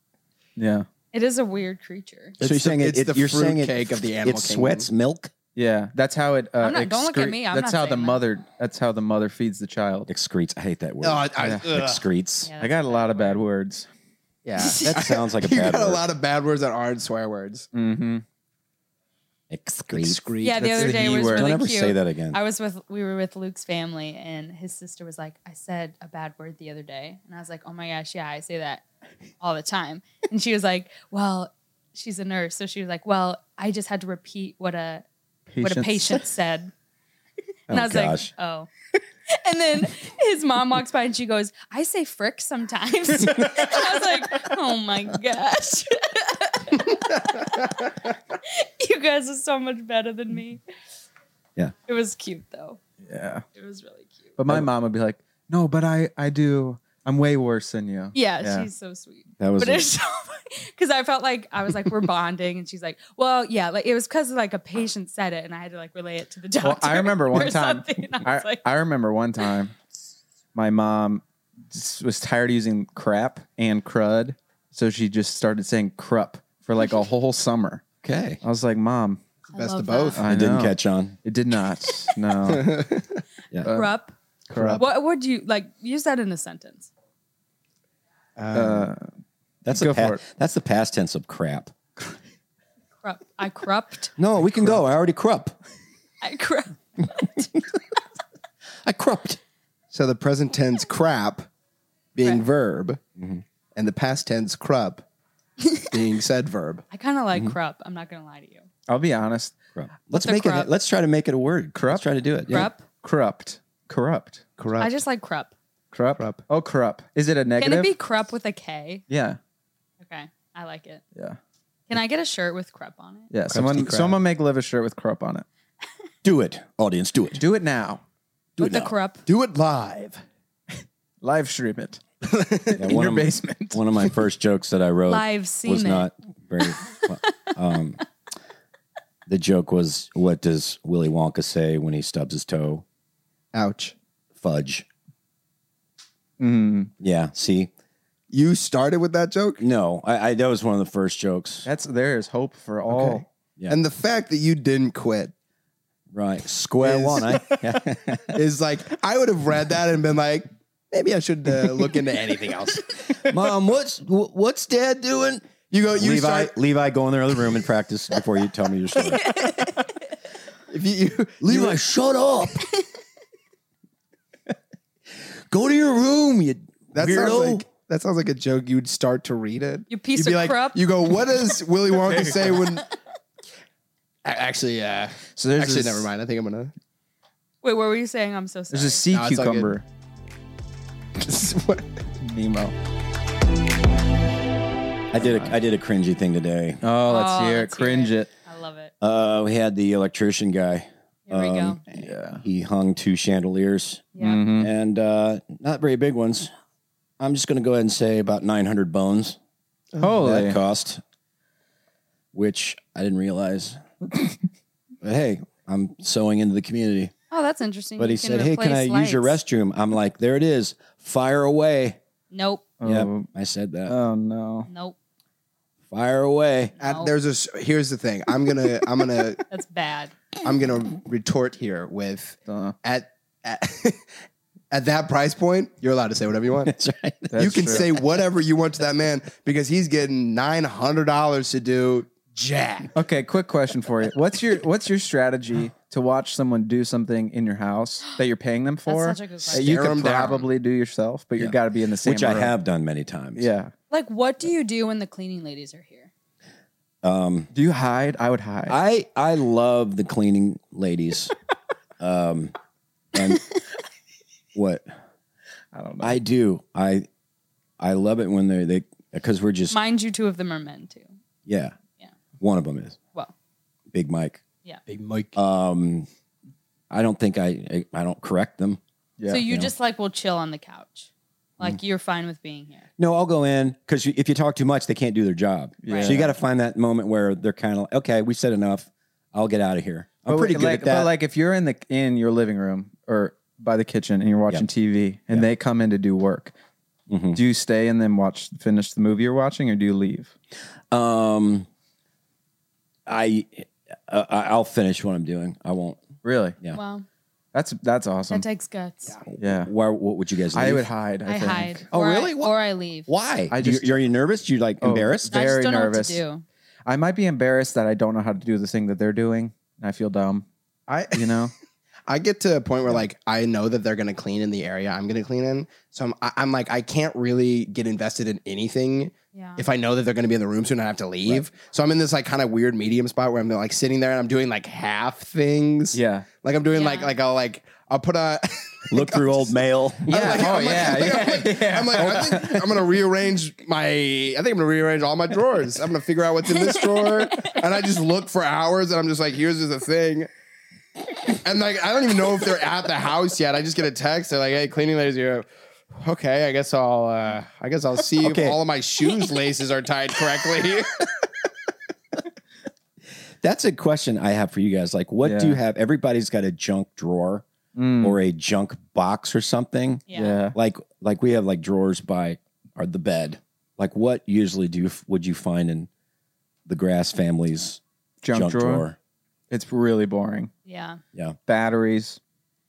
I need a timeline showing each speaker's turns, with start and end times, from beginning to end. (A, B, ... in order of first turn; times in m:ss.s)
0:00.6-0:00.8 A
0:01.1-0:02.4 B
0:02.4-0:04.9 C
0:02.4-0:05.3 D
0:05.5-0:10.1 A
0:06.6-0:08.2 B
0:10.1-0:12.5 D
0:11.0-0:12.0 C
0:11.4-0:11.7 A
0:12.4-0:13.4 B
0:12.6-0:13.9 A
0:14.4-0:17.7 C
0:14.6-0:15.0 B
0:14.8-0:16.0 D
0:17.7-0:18.2 A
0:19.5-0:20.2 D
0:19.9-0:21.2 C
0:20.4-0:28.8 B
0:20.6-0:21.5 A
0:21.2-0:22.4 D
0:29.4-0:35.0 B
0:35.5-0:36.2 A
0:35.6-0:36.7 B
0:37.7-0:38.7 B
0:37.7-0:38.3 D
0:39.3-0:47.9 B
0:48.4-0:50.6 B
0:51.9-0:52.8 B
0:53.0-0:53.4 A
0:53.5-0:54.3 B
0:54.4-0:58.7 A
0:58.1-1:08.6 B
0:59.4-0:59.9 D
1:06.6-1:09.7 A
1:10.5-1:17.8 A
1:18.0-1:18.4 D
1:18.4-1:19.2 A
1:19.5-1:20.2 B
1:19.5-1:20.2 C
1:20.2-1:22.8 A
1:20.2-1:21.2 D
1:22.4-1:23.2 C
1:23.6-1:23.9 A
1:23.7-1:24.1 B
1:24.5-1:24.8 A
1:24.6-1:24.8 C
1:24.8-1:26.9 B
1:28.4-1:28.9 C
1:28.5-1:29.1 A
1:29.6-1:31.7 D
1:29.7-1:30.2 A
1:33.0-1:34.1 B
1:34.2-1:35.5 D
1:36.2-1:37.5 B
1:38.8-1:39.4 D
1:39.9-1:41.5 C
1:42.1-1:43.0 C
1:43.2-1:43.4 D
1:43.8-1:45.0 C
1:45.6-1:45.9 B
1:45.9-1:46.8 C
1:46.9-1:48.6 B
1:48.9-1:49.5 A
1:49.7-1:52.7 D
1:50.1-1:50.7 B
1:51.7-1:52.0 A
1:52.5-1:52.8 B
1:53.0-1:54.4 A
1:54.6-1:54.9 C
1:54.8-1:55.5 B
1:55.9-1:57.9 A
1:56.2-1:56.4 C
1:57.6-1:59.0 B
1:59.1-1:59.4 A
2:00.0-2:01.0 B
2:01.9-2:03.3 B
2:03.3-2:05.4 A
2:03.5-2:04.2 C
2:06.2-2:07.4 D
2:07.4-2:08.0 A
2:08.6-2:08.9 D
2:08.6-2:09.2 B
2:09.2-2:10.2 C
2:11.2-2:12.0 A
2:12.2-2:12.8 C
2:12.7-2:13.8 A
2:12.8-2:18.0 D
2:15.1-2:16.1 B
2:16.7-2:17.5 B
2:19.3-2:22.8 D
2:23.5-2:23.9 C
2:24.4-2:24.8 D
2:26.4-2:26.9 A
2:27.0-2:27.7 D
2:28.3-2:29.6 C
2:29.6-2:31.7 D
2:31.6-2:33.2 A
2:32.9-2:35.3 C
2:36.1-2:38.4 D
2:36.8-2:37.6 C
2:38.3-2:43.0 C
2:43.2-2:49.4 D
2:45.7-2:46.5 C
2:49.1-2:49.8 B
2:50.7-2:51.8 C
2:51.4-2:52.6 D
2:55.5-2:57.6 D
2:56.9-3:02.9 C
2:59.9-3:00.9 B
3:02.1-3:02.5 A
3:04.2-3:06.7 C
3:05.3-3:06.1 A
3:07.6-3:09.0 B
3:08.7-3:09.8 A
3:09.1-3:09.8 C
3:11.2-3:11.8 C
3:12.2-3:12.7 A
3:15.1-3:16.8 D
3:15.2-3:15.5 A
3:16.8-3:18.3 A
3:17.1-3:18.9 B
3:19.0-3:26.5 D
3:21.3-3:21.8 B
3:21.9-3:22.4 A
3:24.1-3:24.4 B
3:24.2-3:24.7 A
3:27.2-3:29.4 D
3:30.0-3:30.6 A
3:30.0-3:31.0 D
3:32.3-3:33.8 D
3:35.0-3:37.1 D
3:37.3-3:39.4 B
3:38.0-3:42.0 D
3:42.3-3:42.7 B
3:42.8-3:43.3 A
3:42.8-3:43.9 D
3:43.8-3:44.7 A
3:44.7-3:45.0 B
3:45.9-3:46.7 D
3:46.8-3:47.1 B
3:46.8-3:49.4 C
3:49.5-3:50.1 B
3:50.4-3:54.0 C
3:52.4-3:52.7 A
3:54.7-3:56.7 C
3:56.6-3:58.1 D
3:57.3-3:57.8 A
3:57.4-4:02.9 C
4:02.9-4:12.6 A
4:08.8-4:09.8 B
4:09.4-4:10.5 C
4:11.4-4:13.5 D
4:13.4-4:13.7 A
4:13.9-4:16.1 B
4:17.0-4:17.5 D
4:17.5-4:18.8 A
4:18.7-4:21.3 D
4:22.0-4:22.5 D
4:23.1-4:23.4 D
4:24.5-4:24.9 D
4:25.7-4:26.2 A
4:26.0-4:27.1 D
4:27.8-4:29.8 D
4:29.7-4:31.1 B
4:31.5-4:31.7 D
4:32.4-4:33.0 D
4:33.9-4:34.4 D
4:34.9-4:35.4 C
4:35.3-4:36.1 D
4:36.9-4:38.8 D
4:39.2-4:39.5 A
4:39.3-4:42.9 B
4:39.4-4:39.7 D
4:43.0-4:51.1 D
4:45.8-4:46.3 A
4:45.9-4:46.1 B
4:50.2-4:56.5 A
4:57.1-4:57.4 D
4:57.3-5:00.3 A
5:00.9-5:01.7 D
5:03.0-5:06.0 D
5:06.2-5:06.6 A
5:06.7-5:07.0 B
5:07.5-5:08.4 A
5:08.3-5:09.2 B
5:09.3-5:10.9 D
5:09.4-5:09.7 A
5:10.5-5:11.8 A
5:11.2-5:13.1 B
5:11.9-5:12.5 D
5:13.1-5:15.3 D
5:13.5-5:14.0 A
5:14.8-5:16.2 A
5:15.3-5:16.4 B
5:16.8-5:20.4 A
5:20.9-5:21.2 C
5:21.1-5:21.5 A
5:22.1-5:39.5 C
5:29.3-5:29.6 B
5:35.9-5:36.3 A
5:36.7-5:37.1 B
5:38.9-5:40.9 D
5:40.0-5:50.3 C
5:40.1-5:42.6 A
5:41.9-5:42.6 D
5:46.6-5:47.5 B
5:51.3-6:01.1 C
5:58.2-5:58.6 D
6:03.4-6:07.4 D
6:05.2-6:05.6 A
6:07.7-6:08.2 A
6:08.0-6:10.0 D
6:10.1-6:10.4 B
6:10.1-6:10.6 A
6:10.5-6:15.9 D
6:16.6-6:17.8 D
6:18.2-6:18.9 A
6:18.3-6:19.0 D
6:19.5-6:20.5 A
6:20.6-6:21.0 B
6:21.5-6:22.2 A